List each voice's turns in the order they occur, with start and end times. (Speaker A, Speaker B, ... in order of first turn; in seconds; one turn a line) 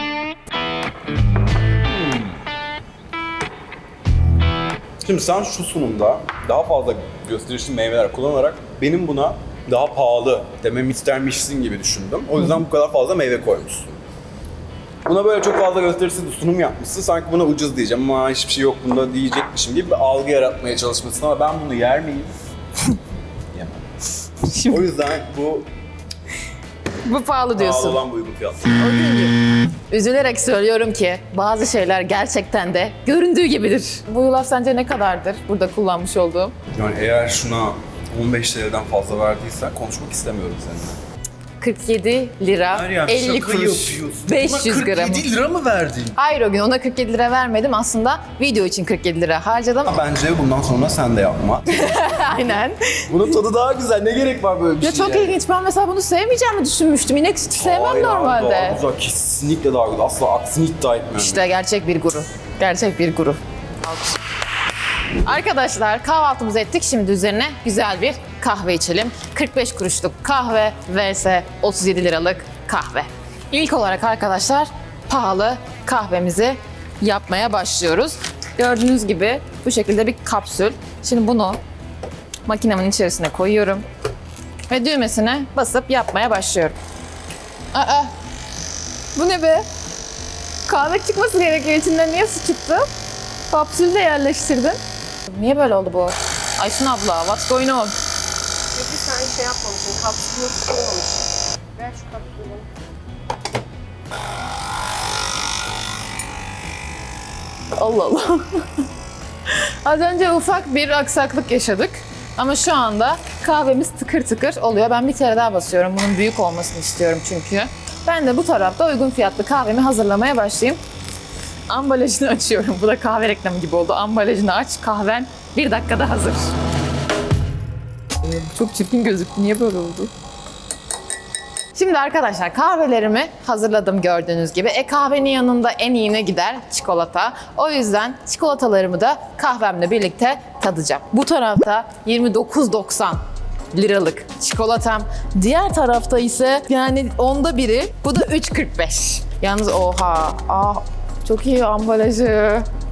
Speaker A: 1.9-2.4
Speaker A: 5.0-14.0
Speaker A: 15.1-22.3
Speaker A: 23.5-23.8
Speaker B: 24.5-24.8
Speaker A: 24.7-25.7
Speaker B: 27.1-28.0
Speaker A: 27.6-28.8
Speaker B: 28.8-29.4
Speaker B: 29.9-36.5
Speaker A: 36.7-41.0
Speaker B: 41.6-45.3
Speaker A: 42.7-46.2
Speaker B: 46.2-50.0
Speaker A: 49.9-52.2
Speaker B: 51.7-53.1
Speaker A: 53.1-55.4
Speaker B: 54.8-58.8
Speaker A: 57.5-61.5
Speaker B: 61.2-64.2
Speaker B: 65.2-81.6
Speaker B: 82.5-83.8
Speaker B: 84.7-86.7
Speaker B: 87.7-88.1
Speaker B: 89.2-89.7
Speaker B: 90.7-92.9
Speaker B: 93.5-97.9
Speaker B: 98.9-101.1
Speaker C: 98.9-101.1
Speaker B: 101.8-102.1
Speaker C: 101.8-102.6
Speaker B: 107.8-108.7
Speaker B: 109.5-120.8
Speaker B: 121.7-126.5
Speaker B: 128.2-130.1
Speaker B: 131.7-152.7